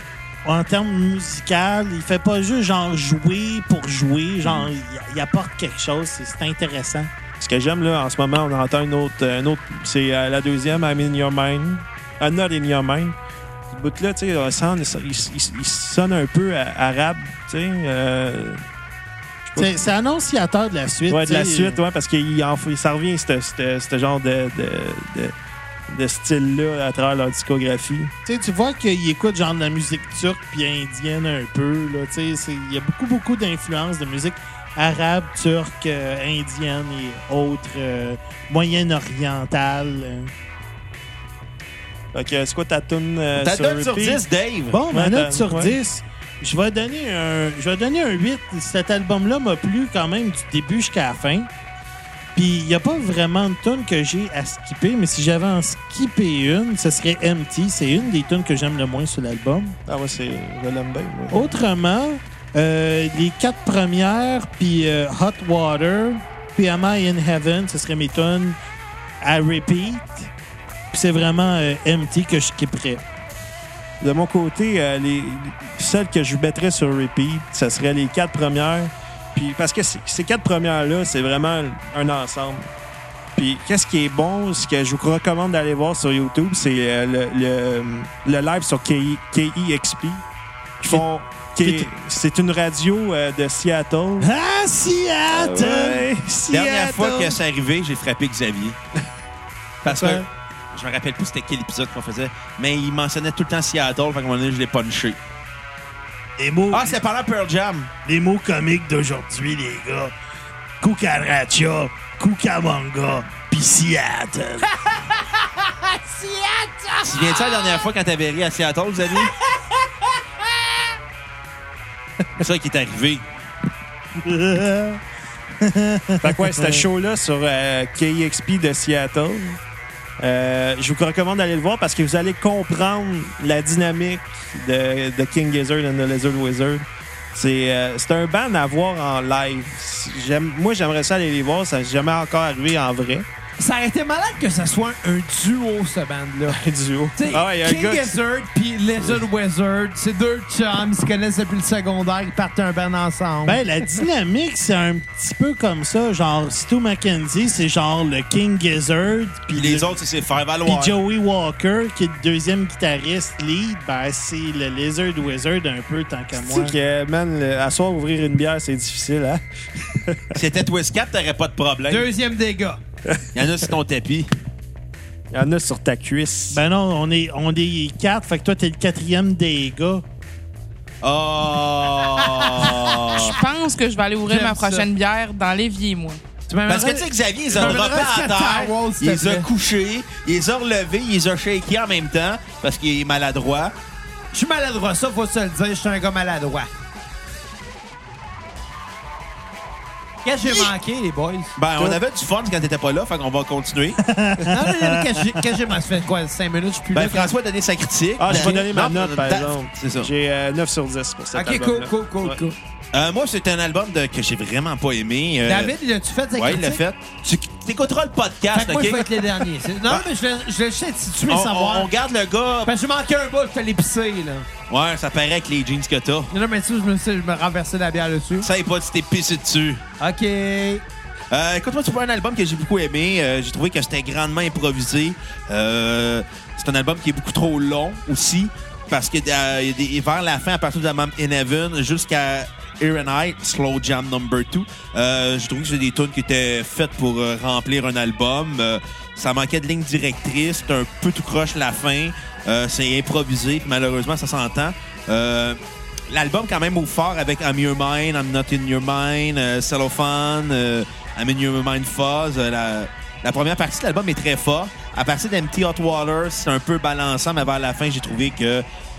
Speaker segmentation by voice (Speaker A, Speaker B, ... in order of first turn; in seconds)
Speaker A: 0.4-7.1, 19.5-21.8, 28.2-40.3, 44.7-51.5, 52.3-59.8, 61.3-68.6, 69.2-70.3, 70.9-73.0, 91.6-91.9, 94.2-96.1, 99.8-100.2, 106.4-107.0, 108.0-110.1, 110.8-114.7, 124.2-125.0, 125.6-126.8, 153.4-160.0, 160.6-166.8, 176.5-180.0, 204.0-205.4
Speaker B: 7.4-13.1, 13.7-18.6, 21.1-25.3, 25.9-28.1, 42.1-44.2, 44.9-45.7, 59.9-61.5, 74.0-82.7, 83.3-90.2, 90.8-94.3, 95.3-97.4, 126.2-129.6, 130.2-143.2, 146.5-148.2, 166.3-170.3, 175.3-176.6, 208.2-212.4
Speaker C: 43.4-44.8, 96.5-98.8, 99.8-105.2, 106.7-107.9, 117.1-119.3, 122.4-123.3, 159.5-160.9, 170.3-172.1, 173.3-174.3, 181.0-183.4, 186.7-193.7, 201.6-204.0, 206.9-210.1, 212.9-215.7, 216.3-220.0, 221.3-222.7, 224.7-226.3, 228.4-229.8, 231.3-268.6
Speaker D: 114.8-117.9, 143.6-146.6, 147.2-153.6, 171.9-172.8, 182.1-183.3, 184.2-184.9, 186.5-189.5, 194.3-196.7, 200.2-201.6, 204.5-207.3, 208.3-208.6, 211.3-212.6, 215.4-216.8, 218.5-221.9, 222.6-224.5, 226.3-228.5, 230.0-230.8
Speaker E: 183.3-186.2